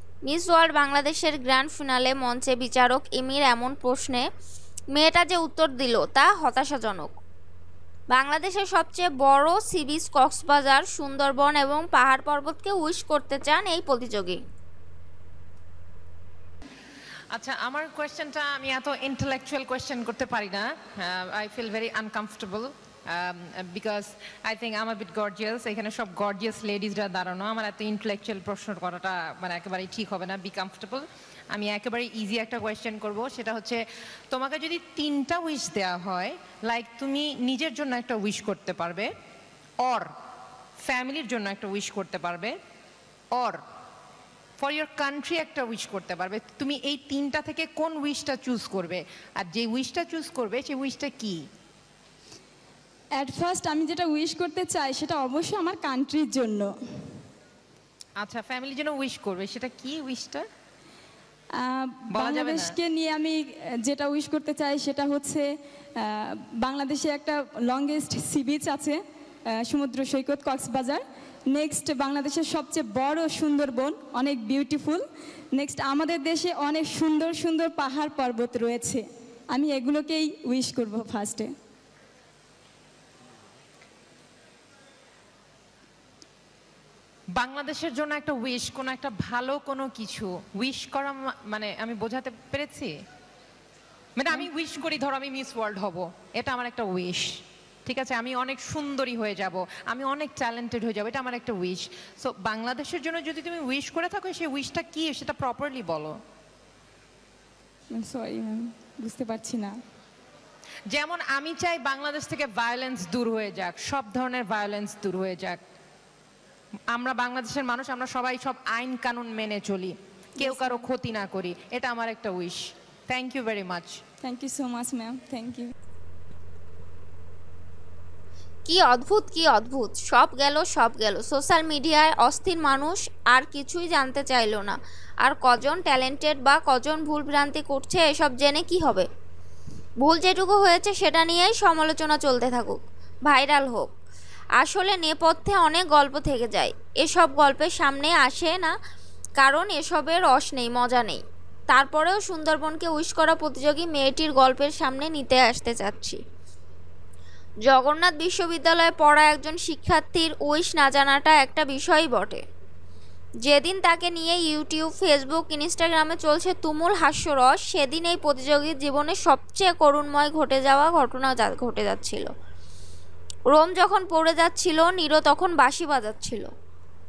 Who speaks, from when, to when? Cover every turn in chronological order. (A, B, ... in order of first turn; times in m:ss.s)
0:00.3-0:04.3 A
0:04.9-0:07.2 A
0:08.1-0:14.4 A
0:17.3-0:39.1 B
0:39.8-0:40.1 B
0:40.8-0:42.6 B
0:43.3-0:43.6 B
0:44.6-0:51.4 B
0:53.2-0:56.7 C
0:58.2-1:00.4 B
1:01.6-1:09.0 C
1:02.1-1:02.7 B
1:09.5-1:15.0 C
1:15.6-1:19.0 C
1:19.5-1:21.5 C
1:27.4-1:32.9 B
1:34.2-1:37.3 B
1:37.9-1:46.2 B
1:48.0-1:49.8 C
1:50.9-1:55.6 B
1:56.9-2:04.0 B
2:00.4-2:00.9 C
2:04.2-2:05.7 C
2:08.7-2:19.1 A
2:20.0-2:23.9 A
2:24.6-2:28.8 A
2:29.4-2:36.2 A
2:37.7-2:42.4 A
2:43.5-2:52.3 A
2:53.5-2:56.5 A